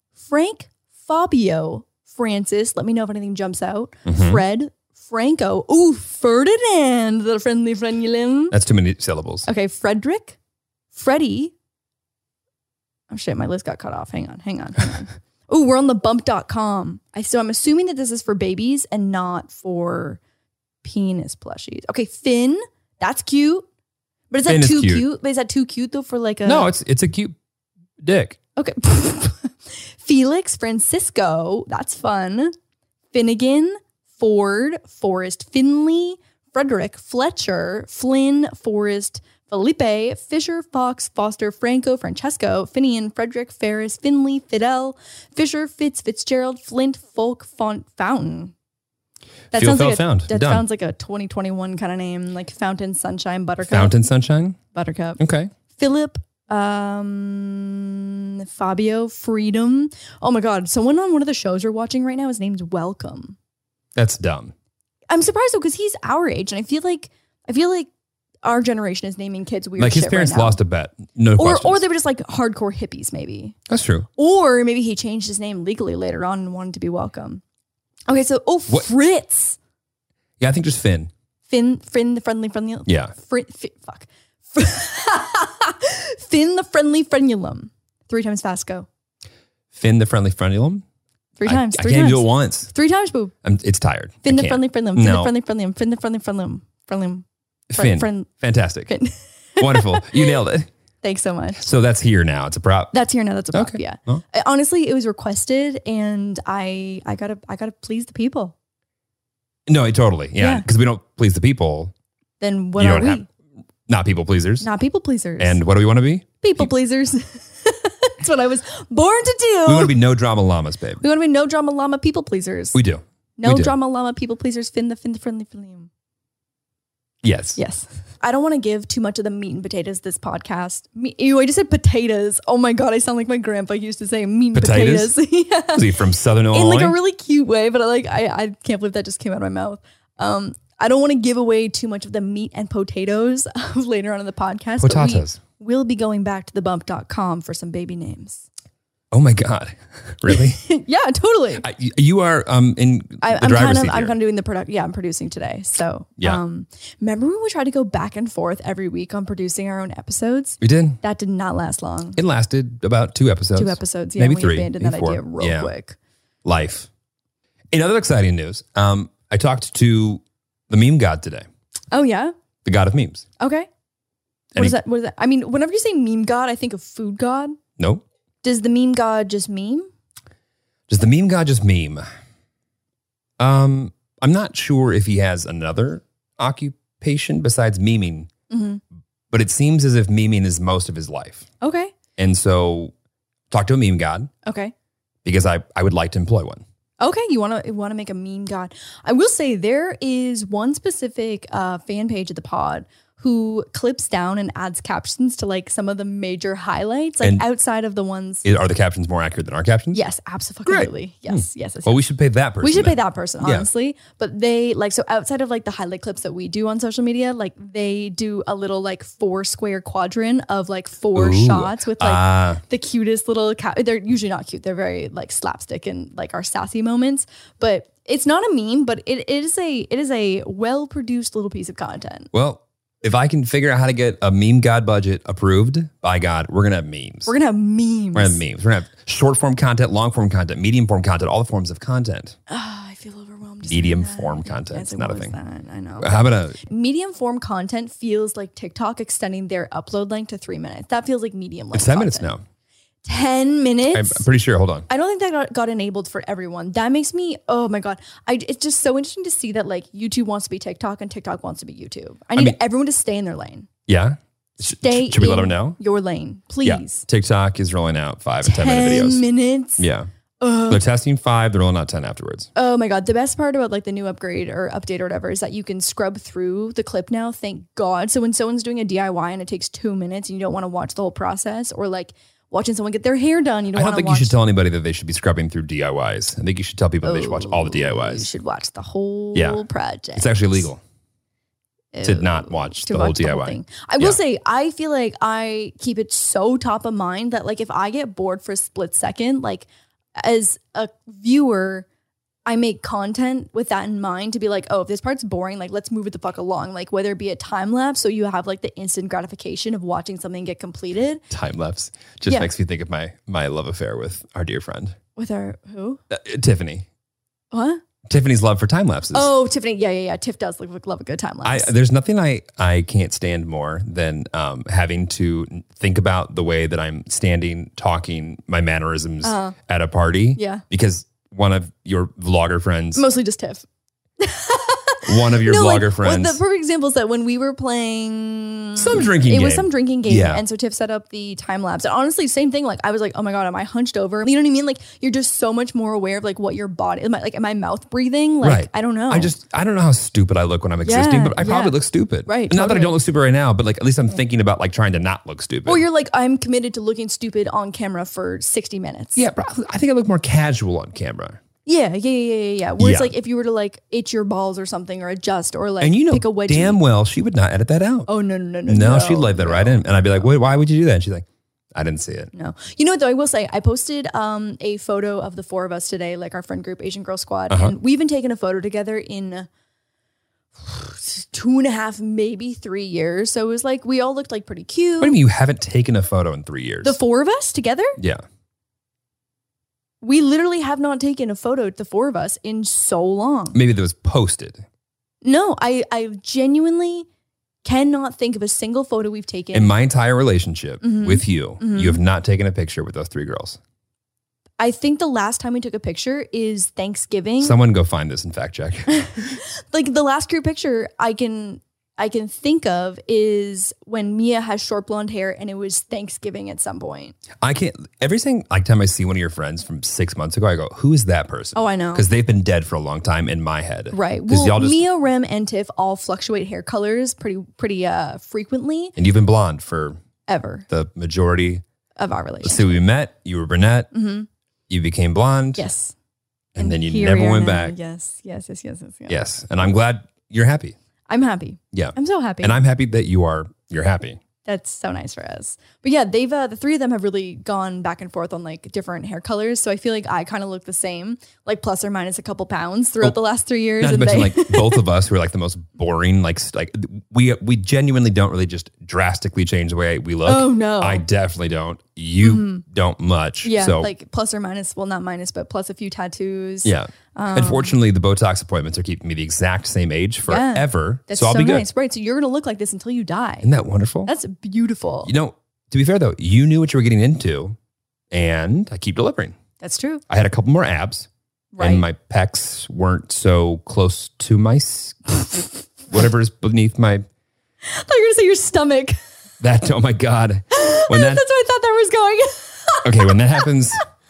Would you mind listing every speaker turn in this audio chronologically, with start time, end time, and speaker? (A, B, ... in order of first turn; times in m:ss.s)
0:00.2-0:08.6 A
0:04.0-0:04.4 B
0:08.5-0:09.5 B
0:09.4-0:10.4 A
0:10.9-0:11.5 A
0:13.1-0:20.2 A
0:20.8-0:23.7 A
0:24.3-0:26.7 A
0:24.4-0:25.0 B
0:26.4-0:27.3 B
0:28.0-0:28.4 B
0:28.6-0:32.5 A
0:33.1-0:48.5 A
0:49.5-0:53.9 A
0:49.5-0:50.6 B
0:53.7-0:54.6 B
0:54.7-0:55.2 A
0:55.2-0:55.5 B
0:55.8-1:03.4 A
1:03.9-1:04.5 B
1:05.1-1:07.9 A
1:08.4-1:10.6 A
1:09.8-1:11.8 B
1:11.4-1:13.6 A
1:13.7-1:14.1 B
1:14.2-1:17.4 A
1:18.1-1:19.6 A
1:20.4-1:21.1 B
1:21.5-1:28.9 A
1:22.8-1:23.1 B
1:29.7-1:30.8 B
1:31.4-1:33.3 A
1:31.4-1:32.7 B
1:33.4-1:35.3 B
1:34.2-1:38.3 A
1:37.7-1:38.9 B
1:38.8-1:40.4 A
1:39.6-1:40.7 B
1:41.0-1:41.6 A
1:41.6-1:42.9 B
1:42.9-1:48.5 A
1:43.5-1:44.2 B
1:49.7-1:51.9 B
1:50.4-1:50.6 A
1:52.4-1:53.3 A
1:52.8-1:53.2 B
1:53.9-1:54.7 B
1:54.6-1:55.6 A
1:55.4-1:56.7 B
1:56.4-1:59.9 A
1:59.6-2:01.0 B
2:01.0-2:02.8 A
2:02.7-2:03.7 B
2:03.4-2:05.9 A
2:07.2-2:07.6 B
2:07.6-2:28.5 A
2:14.5-2:15.1 B
2:15.7-2:17.0 B
2:24.8-2:25.4 B
2:29.1-2:30.6 B
2:30.3-2:31.6 A
2:31.6-2:34.2 B
2:33.2-2:42.2 A
2:40.6-2:41.0 B
2:42.2-2:45.7 B
2:43.5-2:46.0 A
2:46.4-2:46.9 B
2:47.7-2:51.4 B
2:51.9-2:52.3 A
2:52.6-2:53.2 B
2:53.4-2:53.7 A
2:54.6-2:57.5 A
2:57.8-2:58.0 B
2:58.4-2:59.9 A
3:00.9-3:02.0 B
3:03.4-3:08.3 B
3:08.5-3:08.8 A
3:09.3-3:11.4 B
3:11.6-3:11.9 A
3:12.2-3:12.9 B
3:13.5-3:14.3 B
3:14.4-3:14.7 A
3:15.2-3:16.6 B
3:17.0-3:28.4 A
3:28.4-3:30.0 B
3:29.9-3:32.0 A
3:30.6-3:33.7 B
3:32.6-3:52.3 A
3:41.1-3:42.6 B
3:52.3-3:57.3 B
3:57.3-3:58.4 A
3:58.1-4:02.4 B
4:02.5-4:12.3 A
4:03.7-4:05.3 B
4:06.0-4:06.6 B
4:11.7-4:12.4 B
4:13.0-4:14.2 A
4:13.9-4:14.9 B
4:14.9-4:23.7 A
4:23.9-4:25.8 B
4:24.6-4:27.0 A
4:26.6-4:29.2 B
4:28.4-4:29.8 A
4:29.8-4:30.1 B
4:30.4-4:30.8 A
4:30.7-4:32.5 B
4:32.5-4:44.4 A
4:43.7-4:48.3 B
4:47.0-4:50.7 A
4:49.3-4:49.6 B
4:50.1-4:50.8 B
4:51.9-5:01.8 A
4:52.0-4:54.2 B
5:02.4-5:11.2 A
5:11.3-5:15.0 B
5:15.2-5:16.0 A
5:16.1-5:16.9 B
5:17.5-5:17.8 A
5:18.0-5:19.3 B
5:19.1-5:21.7 A
5:21.4-5:33.0 B
5:29.2-5:29.6 A
5:30.4-5:30.6 A
5:32.9-5:33.6 A
5:34.2-5:49.4 A
5:35.0-5:36.4 B
5:38.8-5:40.4 B
5:48.4-5:55.8 B
5:50.8-5:52.9 A
5:55.6-5:59.2 A
5:59.2-6:01.4 B
6:01.6-6:06.8 A
6:02.8-6:03.1 B
6:05.8-6:08.1 B
6:08.1-6:10.3 A
6:08.7-6:12.3 B
6:12.3-6:19.5 A
6:17.5-6:17.7 B
6:20.6-6:25.2 A
6:25.0-6:27.0 B
6:26.8-6:28.0 A
6:28.0-6:28.2 B
6:30.0-6:33.6 A
6:33.5-6:34.6 B
6:35.2-6:37.0 A
6:37.6-6:39.7 A
6:39.5-6:43.6 B
6:40.8-6:42.0 A
6:44.6-6:47.6 A
6:47.4-6:49.4 B
6:48.9-6:57.2 A
6:57.4-7:04.8 B
7:01.5-7:02.0 A
7:03.9-7:09.0 A
7:09.0-7:10.0 B
7:10.3-7:10.6 A
7:10.7-7:11.6 B
7:12.0-7:12.7 A
7:12.4-7:13.9 B
7:13.9-7:14.3 A
7:14.7-7:15.6 B
7:15.6-7:15.9 A
7:16.5-7:17.7 B
7:16.6-7:19.2 A
7:19.1-7:20.7 B
7:21.1-7:22.6 A
7:21.7-7:24.2 B
7:24.4-7:34.8 A
7:33.8-7:43.9 B
7:40.2-7:41.0 A
7:42.2-7:42.6 A
7:43.4-7:47.8 A
7:46.6-7:51.6 B
7:50.3-7:53.5 A
7:53.4-7:54.1 B
7:54.0-7:55.1 A
7:55.0-7:57.6 B
7:58.1-7:59.4 B
7:59.6-8:00.0 A
8:00.1-8:01.1 B
8:01.5-8:01.8 A
8:01.6-8:05.2 B
8:05.9-8:07.0 B
8:07.6-8:09.0 A
8:09.4-8:11.2 B
8:10.5-8:13.5 A
8:12.8-8:13.8 B